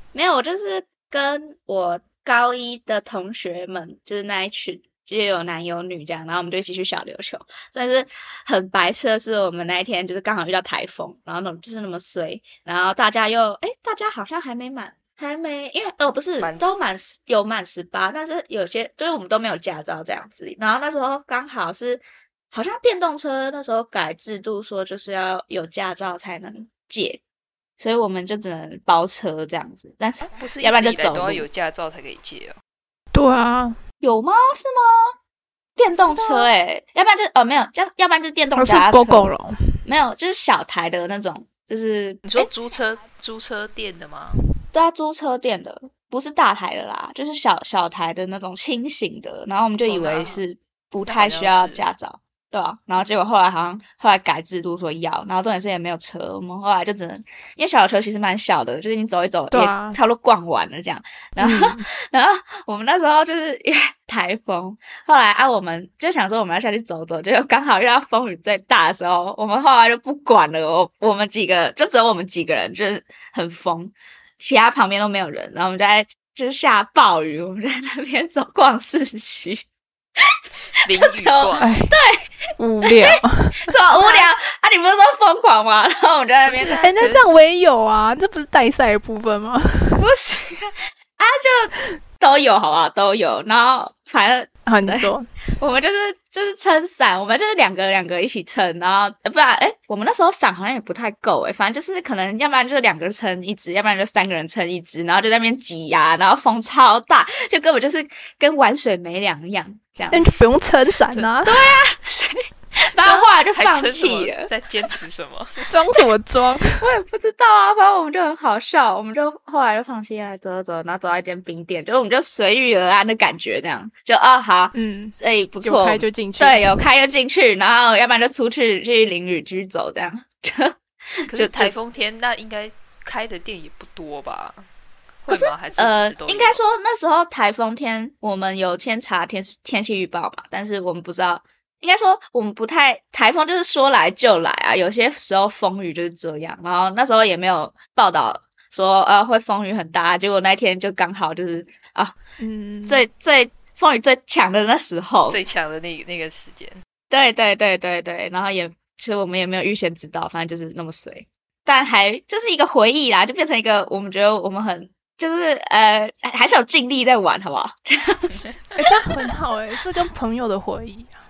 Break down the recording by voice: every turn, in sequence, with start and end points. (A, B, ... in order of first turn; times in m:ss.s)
0:00.1-0:27.2 A
0:16.4-0:16.7 B
0:27.8-0:31.4 A
0:30.4-0:32.6 B
0:33.1-0:33.8 C
0:34.0-0:35.1 A
0:35.8-0:39.3 A
0:36.0-0:36.5 C
0:38.6-0:39.6 C
0:39.8-0:42.5 A
0:42.2-0:44.4 B
0:44.7-1:19.6 A
0:49.8-0:50.4 B
0:51.0-0:51.8 B
0:59.5-1:00.0 C
1:01.4-1:01.8 C
1:20.8-1:21.7 B
1:21.0-1:22.3 A
1:21.6-1:22.0 C
1:22.6-1:24.3 C
1:22.8-1:27.0 A
1:26.4-1:27.2 B
1:26.8-1:30.0 C
1:30.0-1:30.3 A
1:31.2-1:50.3 A
1:34.7-1:35.2 C
1:50.1-1:51.7 C
1:51.4-1:54.5 A
1:53.0-1:55.7 B
1:55.7-1:56.8 C
1:56.7-2:10.8 A
2:04.7-2:06.7 C
2:11.3-2:14.6 B
2:11.3-2:11.7 A
2:15.2-2:16.6 B
2:15.3-2:32.2 A
2:32.4-2:33.0 C
2:32.8-2:35.4 A
2:35.3-2:36.8 B
2:37.1-2:48.5 A
2:48.3-2:48.8 B
2:48.8-2:51.2 C